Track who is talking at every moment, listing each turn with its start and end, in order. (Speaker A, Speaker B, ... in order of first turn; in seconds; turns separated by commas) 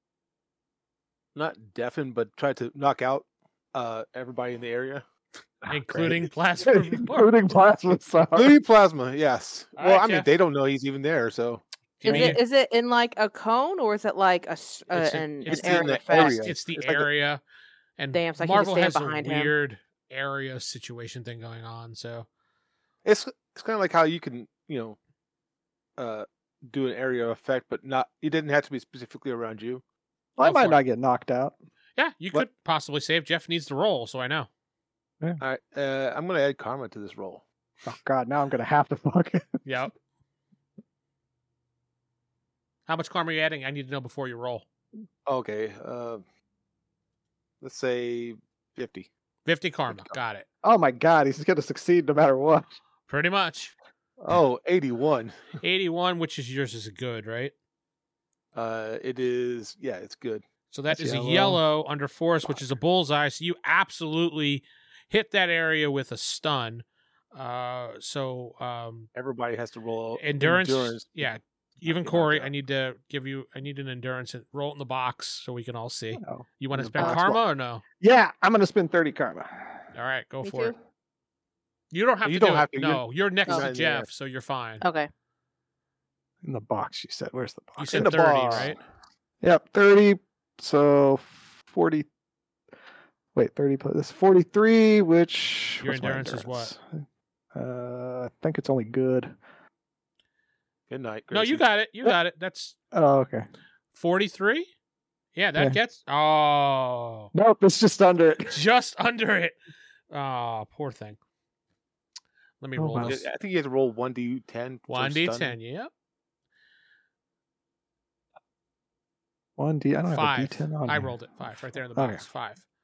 Speaker A: 1.3-5.0, Speaker B: 5.7-7.3, Speaker C: 5.9-8.6, Speaker A: 8.3-12.4, Speaker B: 9.8-10.3, Speaker B: 12.0-12.4, Speaker D: 12.0-16.5, Speaker B: 14.9-17.4, Speaker A: 15.4-17.0, Speaker C: 16.7-17.0, Speaker B: 18.0-22.3, Speaker D: 18.1-19.5, Speaker A: 23.1-25.0, Speaker A: 26.0-29.8, Speaker C: 30.4-31.6, Speaker B: 30.4-30.8, Speaker B: 32.0-34.5, Speaker A: 35.4-37.4, Speaker C: 37.8-39.6, Speaker B: 39.6-39.9, Speaker B: 42.9-44.6, Speaker A: 45.2-46.2, Speaker A: 47.6-49.1, Speaker B: 49.5-50.4, Speaker A: 49.9-50.1, Speaker C: 50.6-52.8, Speaker B: 53.1-53.7, Speaker A: 54.2-55.5, Speaker B: 55.6-57.5, Speaker A: 58.5-60.4, Speaker B: 60.7-69.1, Speaker C: 60.9-61.6, Speaker A: 69.1-71.3, Speaker B: 70.2-77.8, Speaker A: 71.8-72.5, Speaker C: 76.2-77.4, Speaker C: 78.0-79.8, Speaker B: 79.9-80.7, Speaker D: 80.4-80.7, Speaker B: 81.9-84.8, Speaker A: 82.2-84.1, Speaker D: 84.8-85.1, Speaker C: 86.4-88.7, Speaker B: 87.8-88.8, Speaker A: 87.9-88.8, Speaker C: 89.4-92.1, Speaker C: 93.3-96.8, Speaker B: 95.8-96.7, Speaker C: 97.5-99.3, Speaker A: 100.9-101.6, Speaker B: 101.3-102.7, Speaker C: 102.9-103.5, Speaker B: 103.9-104.7, Speaker B: 105.3-107.3, Speaker C: 107.3-108.6, Speaker B: 108.5-109.6, Speaker B: 110.1-111.2, Speaker B: 112.6-113.2, Speaker C: 112.8-113.2, Speaker A: 113.0-115.5, Speaker B: 114.9-115.9, Speaker C: 119.6-121.1, Speaker B: 120.1-122.6, Speaker C: 121.9-122.2